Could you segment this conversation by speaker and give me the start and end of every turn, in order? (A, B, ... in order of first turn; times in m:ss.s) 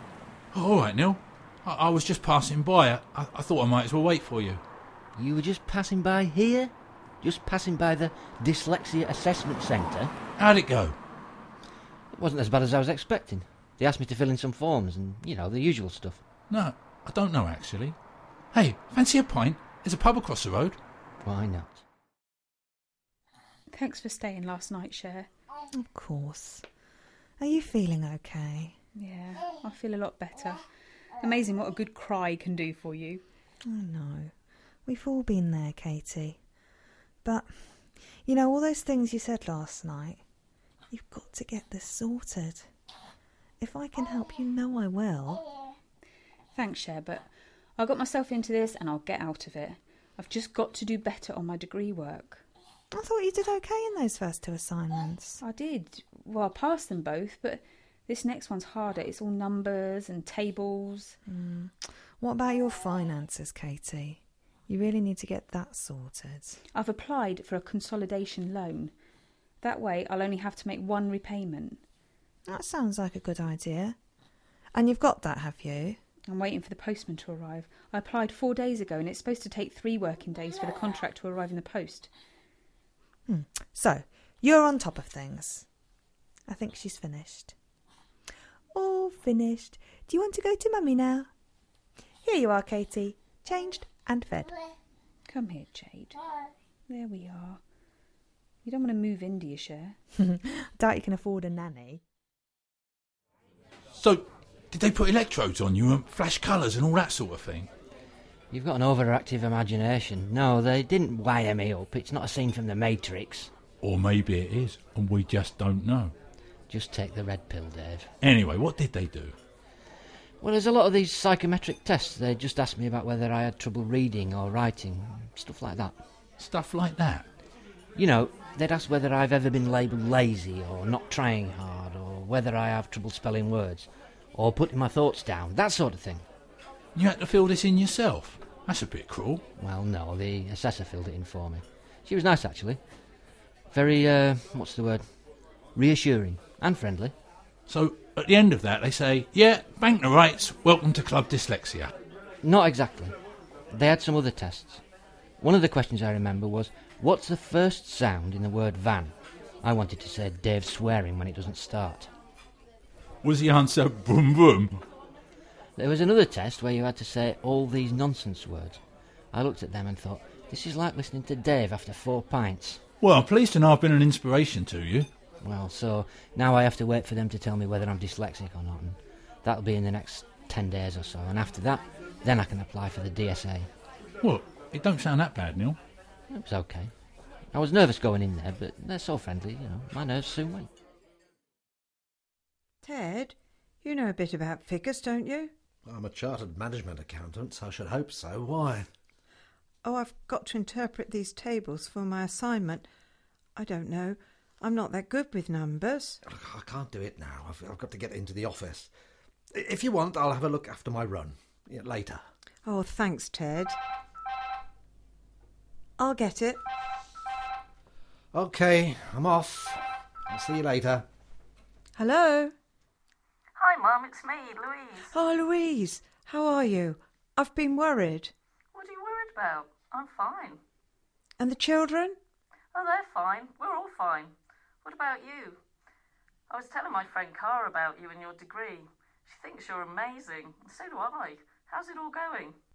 0:00.5-0:04.6 A
0:05.3-0:10.1 B
0:10.4-0:11.0 A
0:12.1-0:16.2 B
0:16.5-0:18.0 A
0:18.5-0:20.8 A
0:21.2-0:21.8 B
0:23.7-0:25.3 C
0:25.8-0:26.6 D
0:27.4-0:28.7 D
0:28.9-0:30.6 C
0:31.2-0:33.2 C
0:33.6-0:34.3 D
0:34.8-0:36.4 D
0:37.2-0:40.2 D
0:40.9-0:42.7 D
0:43.6-0:45.4 D
0:46.5-0:52.4 C
0:52.9-0:55.4 D
0:55.4-1:01.2 C
1:01.3-1:06.6 D
1:06.7-1:08.9 C
1:09.6-1:11.8 C
1:12.5-1:14.0 D
1:14.7-1:16.0 D
1:16.3-1:22.1 C
1:23.3-1:25.6 D
1:26.5-1:27.5 D
1:28.7-1:31.3 D
1:32.2-1:34.5 D
1:35.3-1:36.2 C
1:36.9-1:37.6 C
1:38.6-1:40.0 C
1:40.2-1:42.0 D
1:43.9-1:47.7 A
1:48.5-1:53.5 B
1:53.8-1:56.1 A
1:56.7-1:58.1 B
1:58.2-1:59.4 A
2:00.4-2:05.9 B
2:06.4-2:07.3 A
2:08.0-2:16.2 B
2:16.9-2:19.4 A
2:19.6-2:22.8 B
2:23.7-2:25.0 B
2:25.8-2:27.1 B
2:27.7-2:31.9 A
2:32.4-2:33.2 B
2:33.7-2:34.8 B
2:35.4-2:42.1 B
2:43.2-2:44.8 A
2:45.8-2:48.8 B
2:49.3-2:52.8 B
2:53.0-2:55.1 A
2:55.4-3:03.7 B
3:04.2-3:05.8 A
3:06.3-3:06.9 B
3:07.5-3:10.7 B
3:12.8-3:15.5 E
3:15.8-3:18.9 F
3:19.8-3:22.8 E
3:23.5-3:26.2 E
3:26.2-3:28.9 F
3:29.5-3:32.2 F
3:32.6-3:33.8 E
3:36.0-3:36.6 E
3:38.3-3:41.0 F
3:42.0-3:42.5 E
3:43.6-3:45.1 G
3:45.0-3:48.3 E
3:48.7-3:50.6 G
3:51.4-3:52.2 E
3:52.7-3:55.6 G
3:56.5-4:02.6 G